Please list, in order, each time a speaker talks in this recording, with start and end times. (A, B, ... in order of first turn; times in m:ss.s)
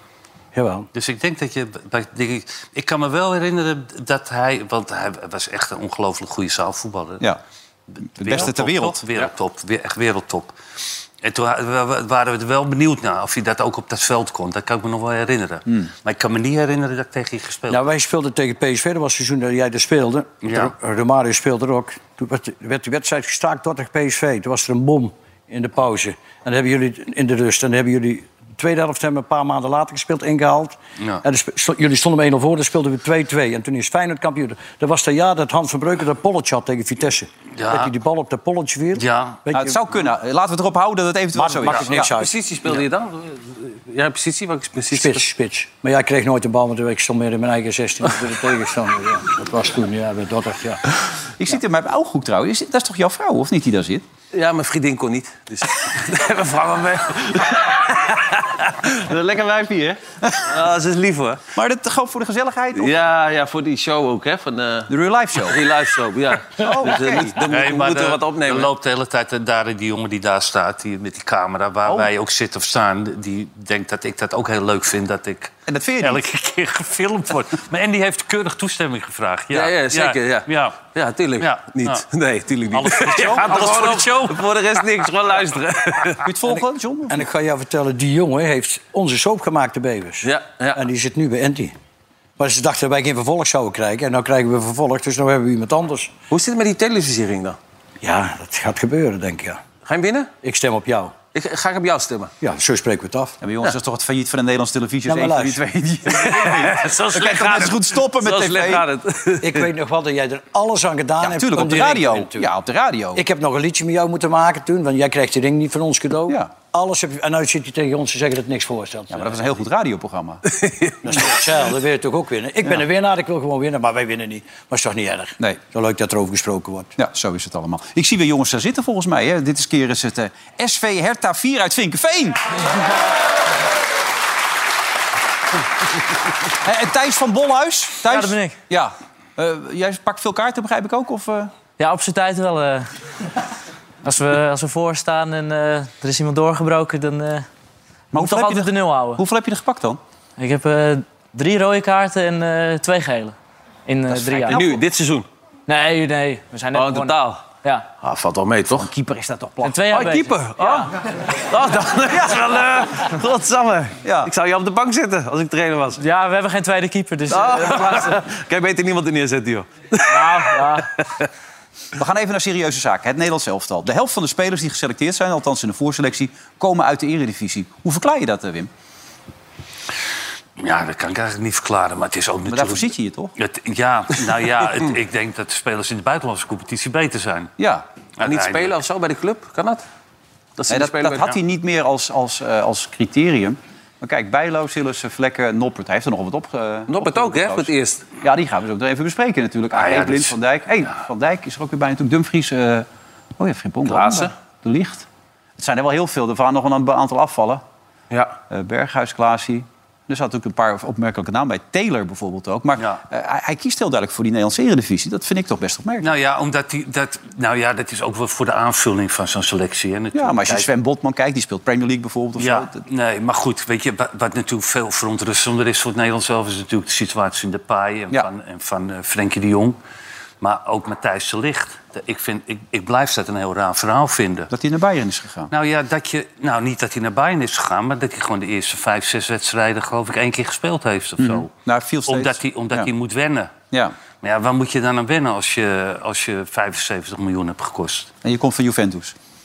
0:00.5-0:00.9 A
0:00.9-0:07.2 B
0:08.0-0:10.5 B
0:08.2-0:09.0 C
0:11.2-0:17.8 B
0:17.7-0:39.8 A
0:20.4-0:20.7 B
0:37.6-0:37.9 B
0:39.0-0:39.4 B
0:39.5-0:42.1 C
0:41.3-0:42.4 A
0:42.1-0:45.2 D
0:44.9-0:50.8 A
0:51.4-0:54.1 C
0:54.3-1:01.4 D
1:01.6-1:02.9 C
1:02.8-1:04.9 D
1:04.9-1:05.6 C
1:05.4-1:08.7 D
1:06.6-1:07.4 C
1:07.5-1:20.8 B
1:15.7-1:16.2 C
1:19.5-1:26.2 D
1:21.4-1:22.0 B
1:22.8-1:24.4 B
1:22.9-1:24.0 C
1:26.2-1:27.2 C
1:27.1-1:31.8 A
1:30.2-1:30.8 D
1:32.4-1:36.1 A
1:36.3-1:37.6 D
1:38.0-1:39.6 A
1:39.8-1:40.3 D
1:40.4-1:41.1 A
1:41.3-1:42.3 D
1:42.4-1:43.4 A
1:43.4-1:48.8 C
1:45.1-1:45.6 A
1:46.1-1:49.6 D
1:49.4-1:52.5 A
1:51.2-1:53.2 C
1:53.1-1:59.4 A
1:56.3-1:56.5 C
1:59.1-2:00.4 C
2:00.5-2:00.9 D
2:01.0-2:06.9 A
2:07.0-2:12.6 C
2:16.6-2:21.5 C
2:18.0-2:18.6 E
2:21.8-2:22.9 E
2:24.0-2:27.4 E
2:28.1-2:30.0 C
2:28.2-2:29.2 E
2:30.4-2:33.4 E
2:33.9-2:34.7 E
2:34.1-2:34.8 C
2:34.4-2:35.3 D
2:35.7-2:37.9 E
2:36.7-2:38.9 D
2:38.8-2:40.0 C
2:39.6-2:40.9 E
2:39.9-2:46.0 D
2:44.0-2:44.3 C
2:46.0-2:48.2 E
2:47.3-2:51.3 D
2:50.1-2:50.9 E
2:52.0-2:58.7 C
3:00.6-3:07.5 B
3:02.5-3:03.3 C
3:07.6-3:07.9 C
3:08.2-3:08.8 B
3:08.2-3:09.8 D
3:10.6-3:11.3 D
3:10.7-3:22.9 C
3:16.9-3:18.0 D
3:19.8-3:20.3 B
3:23.4-3:25.1 C
3:23.8-3:24.3 D
3:25.6-3:27.6 C
3:28.5-3:36.1 C
3:36.0-3:40.7 B
3:40.1-3:42.8 C
3:42.4-3:49.8 B
3:50.4-3:54.5 B
3:54.5-3:55.5 C
3:55.5-4:01.5 B
4:01.2-4:02.9 C
4:02.1-4:03.5 B
4:04.2-4:08.1 B
4:08.2-4:09.1 C